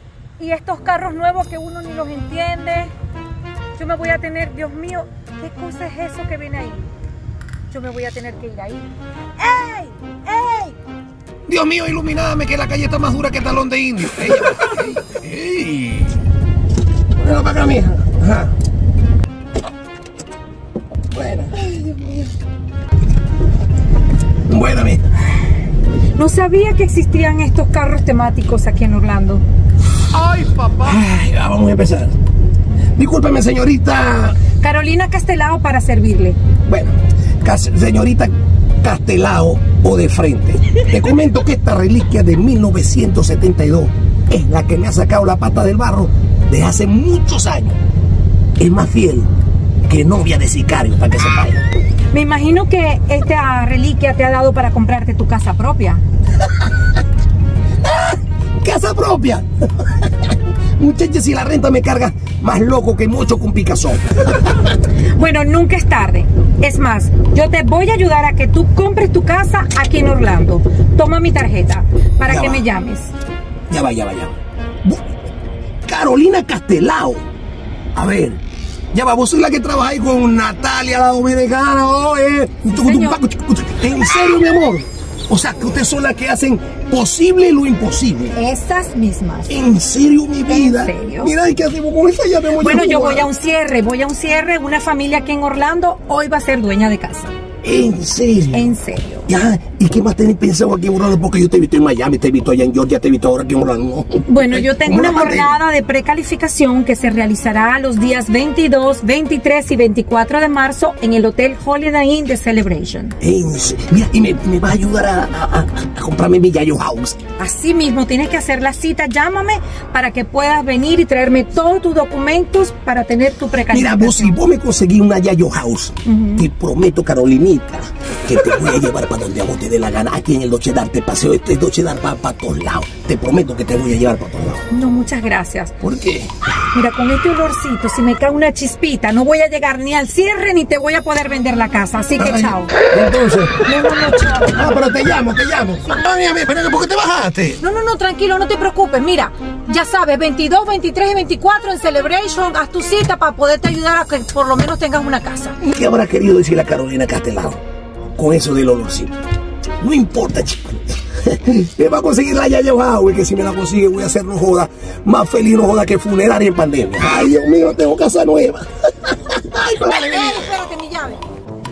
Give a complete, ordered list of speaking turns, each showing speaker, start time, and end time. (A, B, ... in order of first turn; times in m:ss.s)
0:00.4-0:02.9 A
0:03.8-0:06.9 A
0:07.7-0:10.8 A
0:11.5-0:16.2 B
0:17.2-0:18.5 B
0:21.1-0:21.7 B
0:21.6-0:22.3 A
0:24.5-0:25.0 B
0:26.1-0:29.4 A
0:30.1-0:32.1 B
0:33.0-0:34.4 B
0:34.6-0:36.4 A
0:36.7-0:47.8 B
0:48.6-0:49.3 B
0:49.9-0:51.6 B
0:52.1-0:56.0 A
0:57.8-1:04.5 B
1:04.8-1:13.1 A
1:12.2-1:12.7 B
1:13.7-1:15.2 B
1:15.8-1:17.2 B
1:18.0-1:18.4 B
1:18.9-1:28.4 B
1:22.6-1:23.2 A
1:28.3-1:29.5 A
1:29.5-1:33.3 B
1:30.5-1:31.3 A
1:32.6-1:37.3 A
1:37.6-1:38.7 B
1:38.5-1:39.3 A
1:39.3-1:45.6 B
1:44.3-1:53.2 A
1:53.2-1:57.2 B
1:57.4-2:04.4 A
2:03.7-2:14.6 B
2:06.0-2:06.4 A
2:14.7-2:15.8 A
2:15.8-2:16.3 B
2:16.7-2:22.8 A
2:22.2-2:23.8 B
2:23.6-2:24.9 A
2:24.4-2:27.6 B
2:27.6-2:35.6 A
2:35.6-2:37.6 B
2:38.2-2:39.1 B
2:39.8-2:50.5 B
2:49.8-2:51.2 A